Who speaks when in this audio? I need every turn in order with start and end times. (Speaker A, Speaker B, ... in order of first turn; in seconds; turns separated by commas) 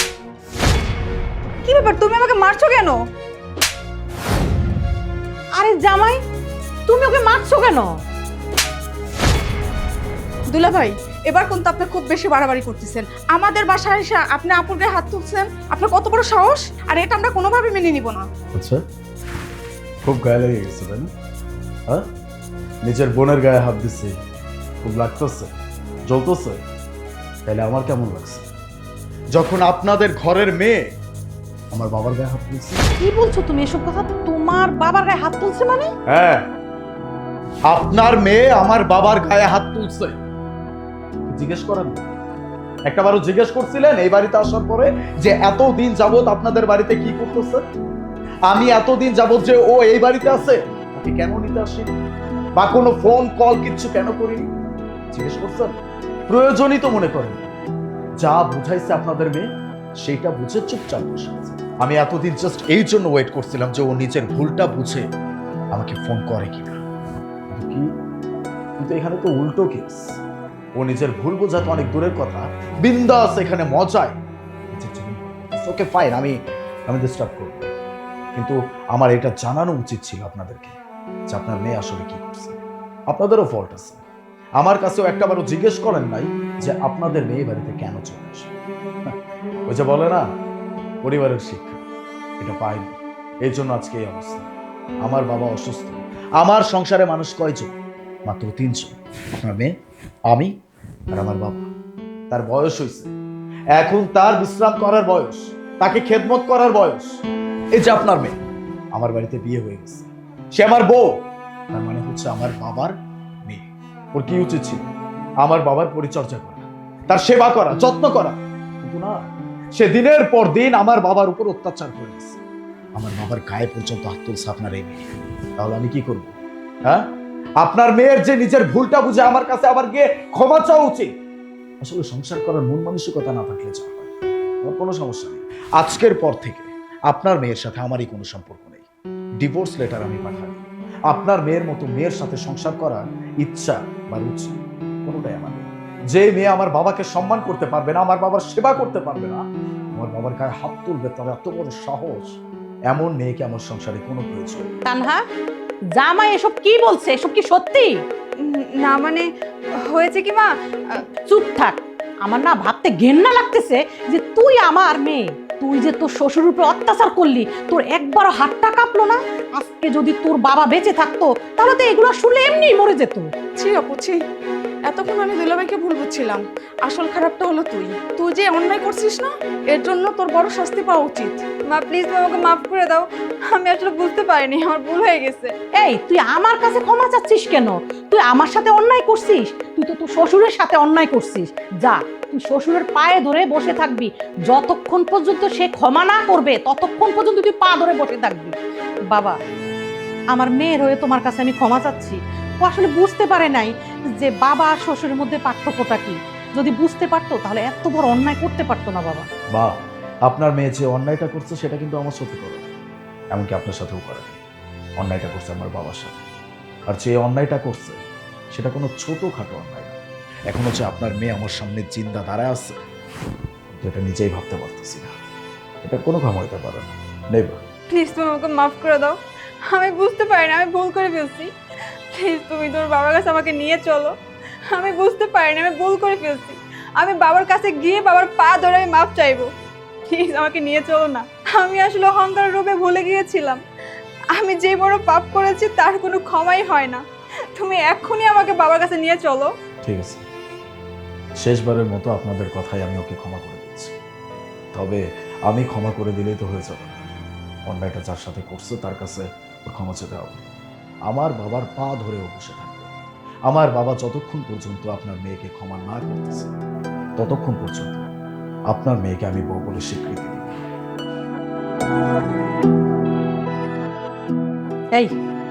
Speaker A: 1.6-3.0, Speaker B: 5.5-6.2, Speaker B: 6.9-7.9, Speaker C: 10.5-18.3, Speaker D: 18.5-18.8, Speaker D: 20.0-21.1, Speaker D: 22.8-24.1, Speaker D: 24.8-25.5, Speaker D: 26.1-26.6, Speaker D: 27.5-28.5, Speaker D: 29.3-30.9, Speaker D: 31.7-32.8, Speaker B: 33.0-35.9, Speaker D: 36.1-36.5, Speaker D: 37.7-40.2, Speaker D: 41.2-42.1, Speaker D: 42.9-47.7, Speaker D: 48.5-51.9, Speaker D: 52.6-54.5, Speaker D: 55.1-55.8, Speaker D: 56.3-57.5, Speaker D: 58.2-59.5, Speaker D: 60.0-65.0, Speaker D: 65.7-66.8, Speaker D: 67.5-67.9, Speaker D: 68.8-70.2, Speaker D: 70.8-74.2, Speaker D: 74.7-76.3, Speaker D: 76.9-77.7, Speaker D: 78.3-80.8, Speaker D: 81.3-82.6, Speaker D: 83.1-84.0, Speaker D: 84.6-88.5, Speaker D: 89.7-90.2, Speaker D: 91.0-91.8, Speaker D: 92.4-94.5, Speaker D: 95.0-97.7, Speaker D: 98.3-99.7, Speaker D: 101.1-101.7, Speaker D: 102.3-103.1, Speaker D: 103.7-107.2, Speaker D: 107.8-108.4, Speaker D: 108.9-111.1, Speaker D: 111.7-112.9, Speaker D: 113.5-114.9, Speaker D: 115.4-122.4, Speaker D: 123.0-125.0, Speaker D: 125.6-126.3, Speaker D: 127.6-131.1, Speaker D: 131.8-134.1, Speaker D: 134.6-138.9, Speaker D: 139.4-149.4, Speaker D: 149.9-154.7, Speaker B: 154.8-155.2, Speaker B: 155.9-158.0, Speaker A: 158.4-160.5, Speaker B: 161.3-173.3, Speaker C: 173.6-174.2, Speaker C: 174.9-181.4, Speaker A: 181.7-185.5, Speaker B: 185.8-198.6, Speaker B: 199.1-199.4, Speaker B: 200.3-209.3, Speaker D: 210.3-212.7, Speaker D: 213.3-214.4, Speaker D: 215.0-216.2, Speaker D: 216.9-218.0, Speaker D: 218.5-220.0, Speaker D: 220.5-222.7, Speaker D: 223.8-225.1, Speaker D: 225.8-227.6, Speaker A: 227.9-231.5, Speaker A: 232.1-234.1, Speaker A: 234.7-239.5, Speaker A: 240.1-243.6, Speaker A: 244.3-247.0, Speaker A: 247.6-249.5, Speaker D: 249.8-250.2, Speaker D: 251.4-254.0, Speaker D: 254.7-257.1, Speaker D: 257.7-260.4, Speaker D: 261.1-262.9, Speaker D: 263.5-266.5, Speaker D: 267.2-268.1, Speaker D: 268.7-270.6